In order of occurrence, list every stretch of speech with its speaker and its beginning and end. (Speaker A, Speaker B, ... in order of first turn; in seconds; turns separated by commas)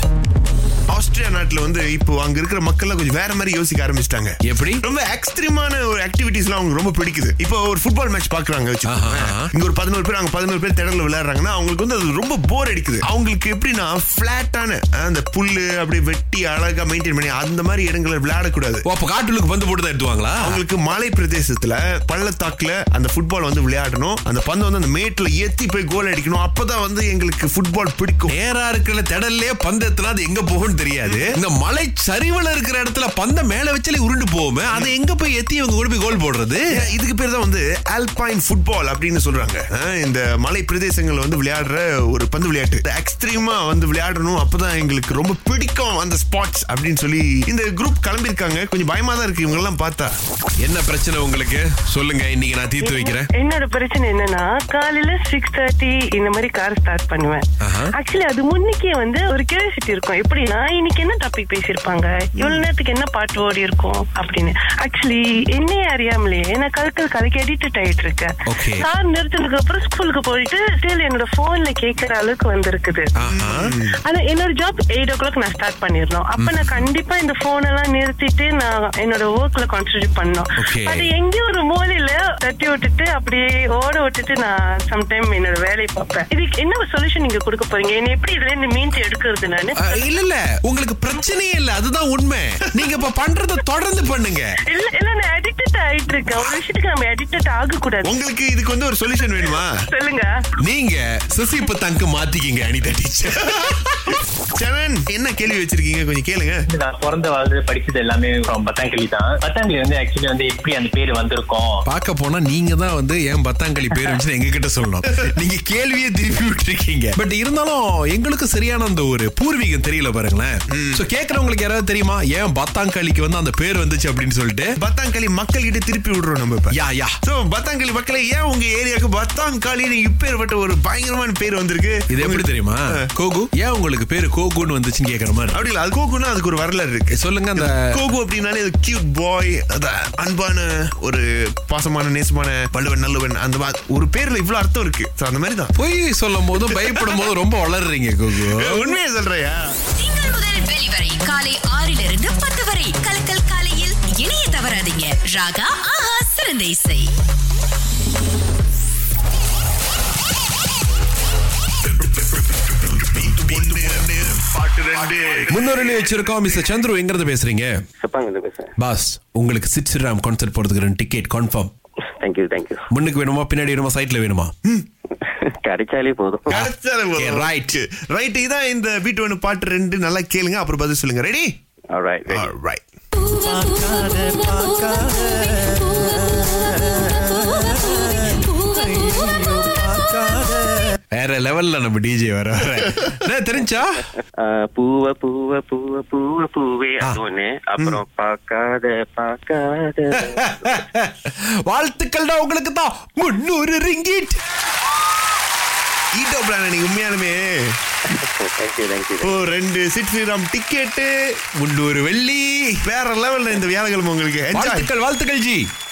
Speaker A: 0.9-18.8, Speaker B: 4.4-4.8, Speaker B: 8.9-9.5, Speaker B: 18.9-20.6, Speaker A: 20.4-28.4, Speaker B: 28.3-36.6, Speaker A: 31.0-31.3, Speaker A: 36.7-50.2, Speaker B: 50.6-53.3, Speaker C: 52.8-73.1, Speaker B: 57.6-57.9, Speaker A: 62.4-62.7, Speaker B: 68.5-68.9, Speaker B: 73.2-73.7, Speaker A: 73.2-73.9, Speaker C: 74.0-89.8, Speaker B: 76.4-76.9, Speaker B: 80.6-81.1, Speaker B: 89.8-94.5, Speaker C: 94.7-98.2, Speaker A: 98.0-99.7, Speaker C: 99.9-100.3, Speaker B: 100.6-104.1, Speaker A: 104.5-106.6, Speaker D: 106.7-111.8, Speaker B: 111.9-124.7, Speaker A: 120.7-121.1, Speaker A: 124.8-133.1, Speaker B: 126.7-127.2, Speaker B: 132.1-135.6, Speaker A: 135.5-145.7, Speaker B: 137.1-137.8, Speaker B: 145.8-148.9, Speaker A: 146.7-147.2, Speaker A: 148.5-149.6, Speaker E: 150.0-157.1, Speaker A: 162.9-166.4, Speaker B: 163.6-164.0, Speaker B: 165.5-167.7, Speaker F: 168.0-168.7, Speaker B: 168.8-171.7, Speaker F: 172.2-172.8, Speaker B: 172.9-174.5, Speaker F: 175.3-176.6, Speaker B: 176.5-177.8, Speaker A: 176.5-181.5, Speaker F: 181.9-182.5, Speaker A: 182.3-182.8, Speaker B: 183.3-194.1, Speaker F: 194.4-200.8, Speaker B: 200.2-204.4, Speaker A: 206.2-207.8, Speaker F: 208.1-209.4, Speaker A: 209.2-211.1, Speaker B: 211.6-212.8, Speaker A: 212.8-214.9, Speaker B: 214.5-215.7